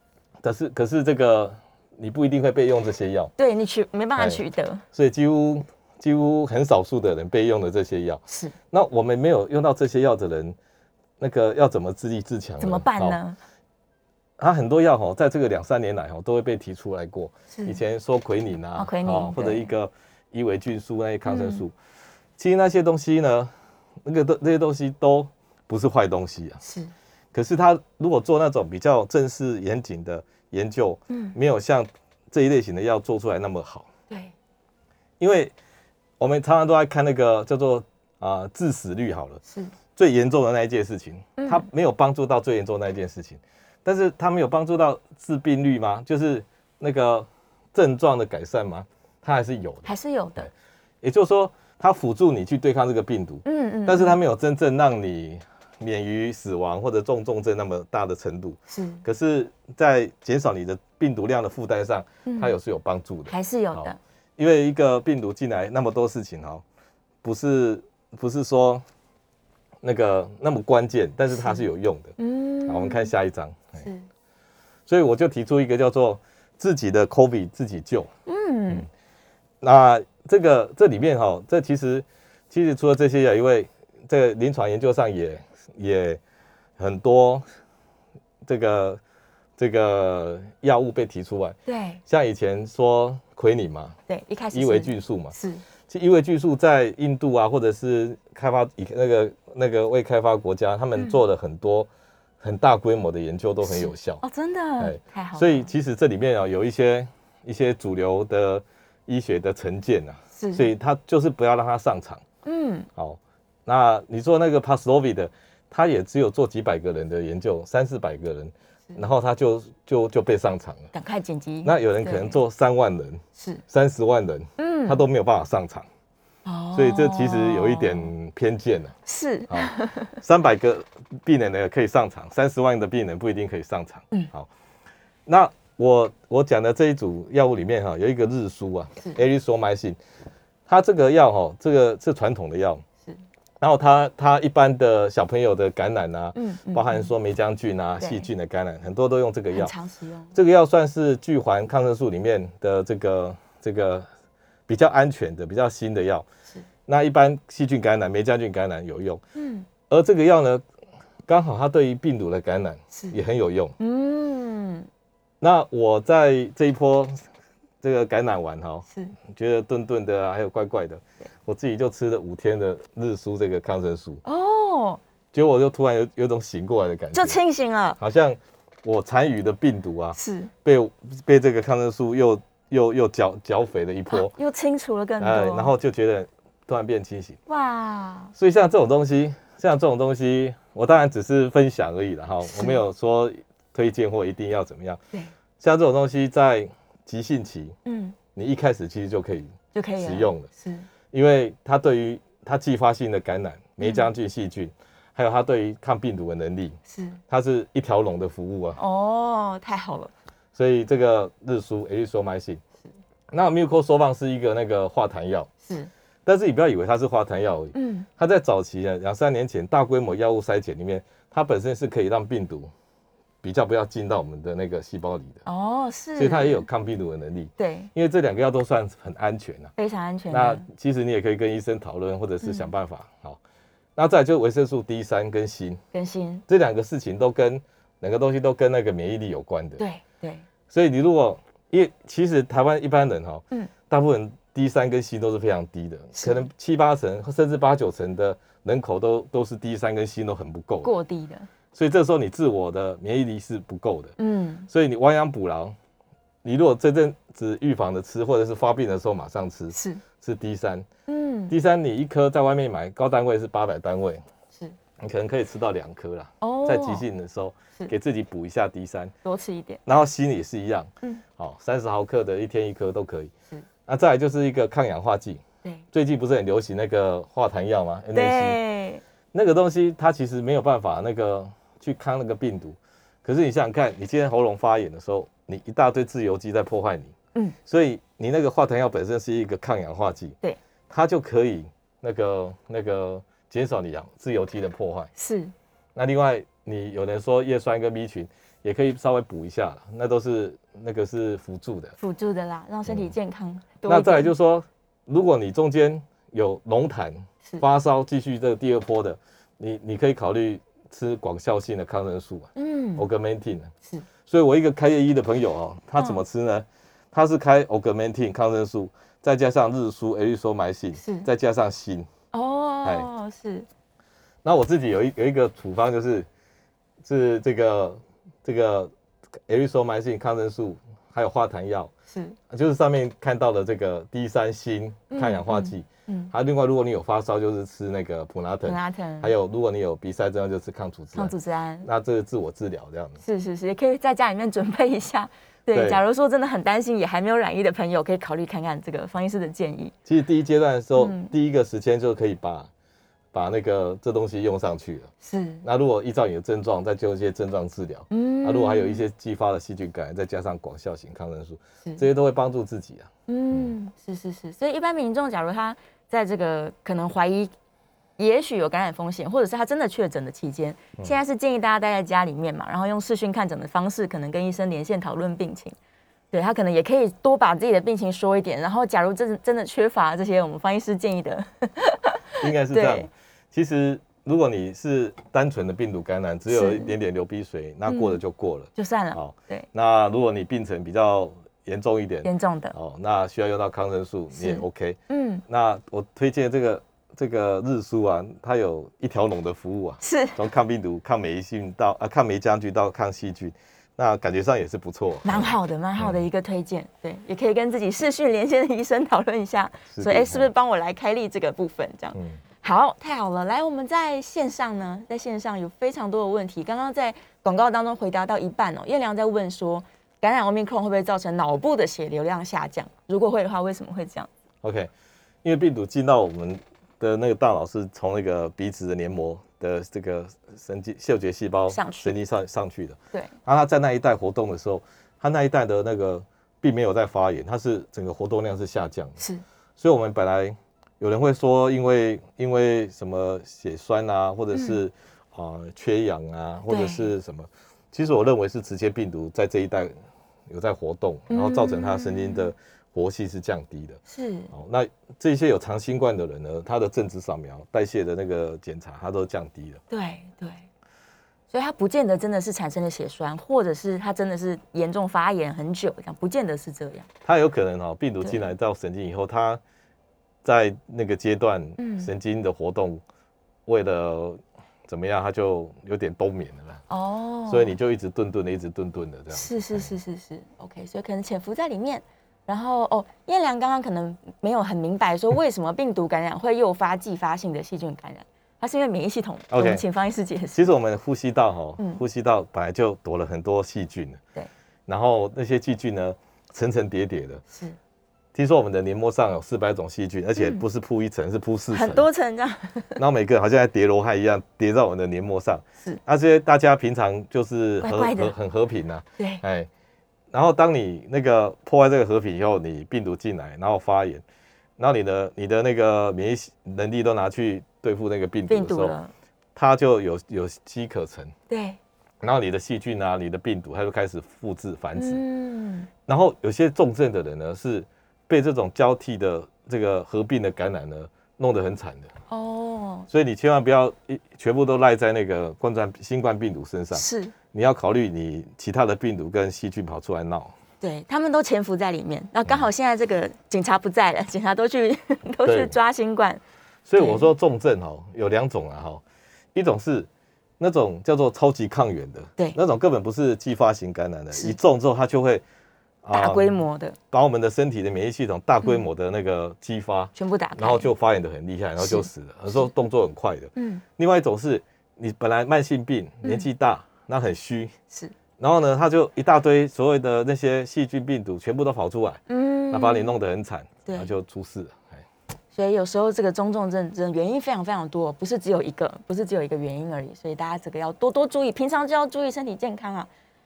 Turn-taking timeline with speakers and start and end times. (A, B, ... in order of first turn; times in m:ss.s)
0:00.4-0:03.3 A
0:03.4-0:04.8 B
0:04.9-0:10.6 A
0:08.3-0:08.5 B
0:11.2-0:13.2 A
0:12.6-0:13.4 B
0:14.4-0:21.7 A
0:17.5-0:17.8 B
0:18.8-0:19.7 B
0:21.3-0:21.6 B
0:22.4-0:23.5 A
0:24.0-0:26.6 A
0:26.6-0:26.9 B
0:27.3-0:33.9 A
0:31.1-0:31.4 B
0:35.2-0:35.5 A
0:36.2-0:39.4 A
0:39.5-0:39.7 B
0:40.0-0:50.5 A
0:41.4-0:41.7 B
0:49.8-0:50.5 B
0:51.0-1:06.6 A
0:53.4-0:54.2 B
0:58.7-0:59.0 B
1:02.3-1:02.5 B
1:03.3-1:04.0 B
1:07.2-1:08.8 A
1:09.8-1:12.2 A
1:11.3-1:11.7 B
1:12.2-1:13.1 B
1:12.7-1:13.8 A
1:13.8-1:14.0 B
1:14.9-1:18.1 A
1:18.3-1:18.9 B
1:19.6-1:26.2 A
1:26.8-1:27.4 A
1:28.4-1:29.0 A
1:29.6-1:34.0 A
1:31.7-1:32.0 B
1:34.1-1:35.6 B
1:34.5-1:35.4 A
1:35.9-1:41.9 A
1:42.4-1:44.2 A
1:43.6-1:45.7 B
1:44.8-1:52.2 A
1:50.4-1:50.7 B
1:52.4-1:52.9 B
1:53.0-2:00.9 A
2:00.9-2:02.4 B
2:01.6-2:05.9 A
2:03.4-2:03.6 B
2:04.6-2:05.0 B
2:06.4-2:08.1 B
2:06.7-2:09.0 A
2:09.1-2:10.2 B
2:09.5-2:14.5 A
2:15.3-2:20.0 A
2:20.7-2:22.8 A
2:23.6-2:29.7 A
2:26.4-2:27.1 B
2:28.0-2:28.3 B
2:29.5-2:30.4 B
2:30.4-2:34.1 A
2:34.7-2:36.3 A
2:36.9-2:39.2 A
2:39.4-2:39.7 B
2:39.9-2:40.6 A
2:41.3-2:43.8 A
2:43.8-2:44.9 B
2:45.4-2:47.2 A
2:47.8-2:54.2 A
2:48.9-2:49.2 B
2:54.2-2:55.0 B
2:55.3-2:57.4 A
2:57.1-2:58.0 B
2:58.0-3:04.3 A
3:00.2-3:00.5 B
3:04.1-3:05.7 B
3:05.2-3:07.4 A
3:07.5-3:08.3 B
3:08.4-3:15.0 A
3:12.5-3:12.8 B
3:15.6-3:17.8 A
3:17.9-3:18.2 B
3:18.4-3:20.5 A
3:19.7-3:20.9 B
3:21.1-3:26.8 A
3:23.8-3:24.1 B
3:26.9-3:27.2 B
3:27.3-3:28.8 A
3:28.8-3:30.1 B
3:30.5-3:32.6 A
3:33.3-3:35.5 A
3:36.3-3:42.7 A
3:37.7-3:38.1 B
3:43.4-3:45.4 A
3:45.5-3:46.6 B
3:46.2-3:49.7 A
3:47.6-3:47.9 B
3:49.8-3:50.7 B
3:50.3-3:53.4 A
3:52.4-3:52.7 B
3:54.0-3:55.8 A
3:55.9-3:56.4 B
3:56.5-3:59.8 A
3:59.8-4:00.4 B
4:00.7-4:10.9 A
4:06.2-4:06.4 B
4:10.8-4:11.5 B
4:11.7-4:14.1 A
4:14.2-4:14.7 B
4:14.7-4:15.8 A
4:16.4-4:20.9 A
4:19.7-4:20.0 B
4:21.1-4:21.5 B
4:21.5-4:24.2 A
4:25.0-4:29.1 A
4:26.4-4:27.0 B
4:29.2-4:29.8 B
4:29.9-4:33.3 A
4:33.9-4:38.6 A
4:38.1-4:39.0 B
4:39.3-4:47.1 A
4:47.6-4:50.4 A
4:50.9-4:55.1 A
4:55.2-4:55.5 B
4:56.0-5:02.0 A
5:02.0-5:04.3 B
5:02.9-5:03.1 A
5:03.9-5:13.7 A
5:12.6-5:13.1 B
5:14.3-5:22.1 A
5:16.0-5:16.2 B
5:21.0-5:21.3 B
5:22.3-5:23.7 B
5:24.4-5:26.3 A
5:27.0-5:28.9 A
5:29.5-5:31.9 A
5:32.1-5:32.4 B
5:32.5-5:43.2 A
5:35.1-5:36.3 B
5:38.6-5:39.3 B
5:41.2-5:41.9 B
5:43.2-5:49.9 B
5:45.7-5:46.0 A
5:50.0-5:52.7 A
5:51.0-5:51.3 B
5:53.3-5:55.1 A
5:55.2-5:55.6 B
5:55.6-6:03.7 A
5:58.1-5:59.0 B
6:03.3-6:07.5 B
6:08.2-6:15.8 B
6:16.3-6:23.1 B
6:22.4-6:46.2 A
6:26.5-6:27.0 B
6:27.9-6:28.2 B
6:28.8-6:29.7 B
6:32.2-6:32.8 B
6:34.3-6:35.4 B
6:40.0-6:40.4 B
6:45.2-7:04.3 B
6:49.9-6:50.5 A
6:52.2-6:52.4 A
7:04.6-7:04.9 A
7:05.4-7:19.2 A
7:11.7-7:12.2 B
7:19.8-7:29.9 A
7:24.5-7:24.8 B
7:26.7-7:27.1 B
7:30.5-7:34.0 A
7:31.3-7:32.5 B
7:34.1-7:34.5 B
7:34.5-7:39.8 A
7:39.9-7:40.6 B
7:41.5-7:47.1 B
7:47.2-7:49.6 A
7:50.4-7:53.0 A
7:51.8-7:52.1 B
7:53.7-7:56.8 A
7:56.9-7:57.8 B
7:57.5-8:00.0 A
7:59.3-8:10.7 B
8:09.5-8:09.8 A
8:10.6-8:14.2 A
8:14.9-8:17.4 A
8:18.3-8:22.1 A
8:20.4-8:20.6 B
8:21.7-8:23.0 B
8:23.0-8:29.7 A
8:27.8-8:28.4 B
8:29.2-8:29.4 B
8:30.3-8:34.2 A
8:34.8-8:39.0 A
8:38.5-8:39.1 B
8:39.6-8:41.3 A
8:41.5-8:41.8 B
8:42.2-8:45.2 A
8:45.0-8:45.9 B
8:46.1-8:52.1 A
8:52.3-8:53.1 B
8:53.1-9:00.5 A
8:56.9-8:57.3 B
9:00.8-9:06.4 B
9:05.4-9:05.8 A
9:06.9-9:09.0 A
9:07.0-9:07.3 B
9:09.5-9:10.1 A
9:10.6-9:15.4 A
9:16.0-9:16.6 A
9:16.1-9:17.0 B
9:17.1-9:27.7 A
9:20.2-9:20.9 B
9:21.8-9:22.7 B
9:23.6-9:23.8 B
9:28.4-9:35.0 A
9:32.3-9:33.1 B
9:33.9-9:34.1 B
9:35.5-9:43.1 B